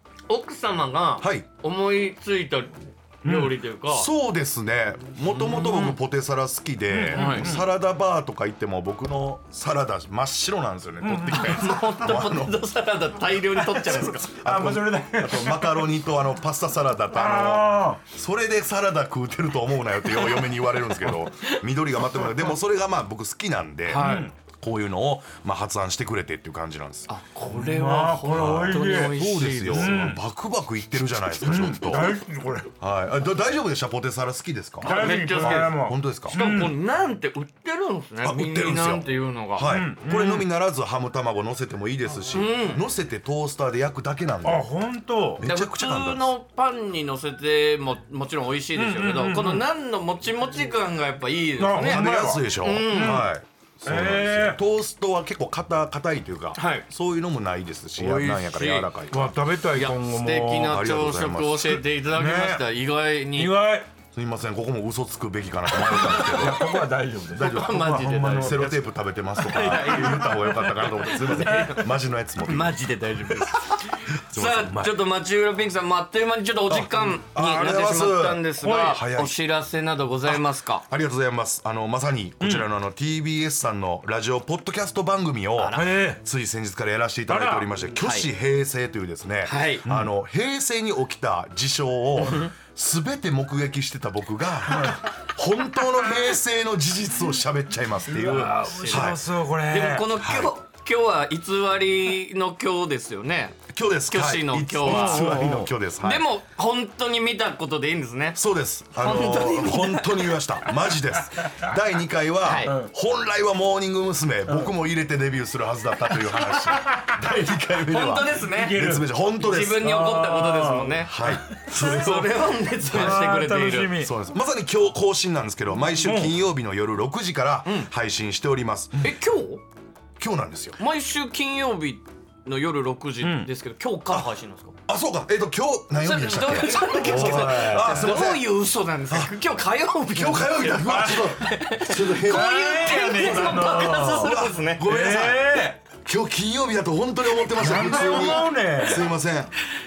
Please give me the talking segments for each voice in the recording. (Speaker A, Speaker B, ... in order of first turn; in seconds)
Speaker A: 0.3-4.1, 5.3-6.0, 7.1-7.5, 11.3-14.3, 20.1-20.6, 24.0-24.3, 27.1-30.0, 34.8-39.7, 42.3-42.8, 45.4-52.1, 52.6-53.3, 56.5-56.9, 58.0-58.9, 59.7-63.5, 67.4-68.6, 69.4-70.4, 71.0-71.9, 72.5-80.8, 85.6-85.9, 88.0-88.3, 89.5-89.8, 92.2-92.5, 98.6-99.2, 99.7-103.6, 104.1-108.4, 109.0-110.4, 112.4-112.8, 117.9-118.8, 119.3-124.0, 129.0-129.6, 130.8-134.8, 136.0-144.8, 147.9-148.3
Speaker B: 1.2-1.5, 3.9-12.6, 13.8-27.1, 28.3-32.2, 32.8-36.4, 38.2-44.7, 45.4-46.3, 51.8-59.4, 60.6-61.8, 64.1-66.8, 67.3-72.9, 74.3-75.0, 76.7-79.4, 80.3-99.2, 100.2-100.5, 103.7-106.2, 108.3-119.9, 121.1-123.3, 124.0-129.0, 130.2-130.8, 134.9-138.5, 139.1-139.3, 140.1-149.5
Speaker C: 3.2-3.6, 6.9-7.7, 11.0-11.8, 13.6-15.9, 17.1-18.0, 23.9-24.3, 27.5-30.2, 31.4-32.7, 34.8-36.8, 39.6-40.5, 44.4-45.5, 48.8-49.6, 51.6-53.3, 53.9-54.6, 59.1-60.8, 62.1-62.7, 63.3-63.9, 65.7-71.5, 82.4-82.7, 85.7-86.2, 87.3-87.9, 89.8-90.1, 94.7-95.1, 98.1-100.1, 104.8-105.7, 111.4-111.7, 112.7-112.9, 114.5-114.7, 116.3-117.1, 118.5-119.1, 119.8-122.1, 122.9-124.1, 126.0-126.4, 133.2-133.5, 136.8-138.1, 140.8-141.4, 142.2-145.8, 147.6-149.1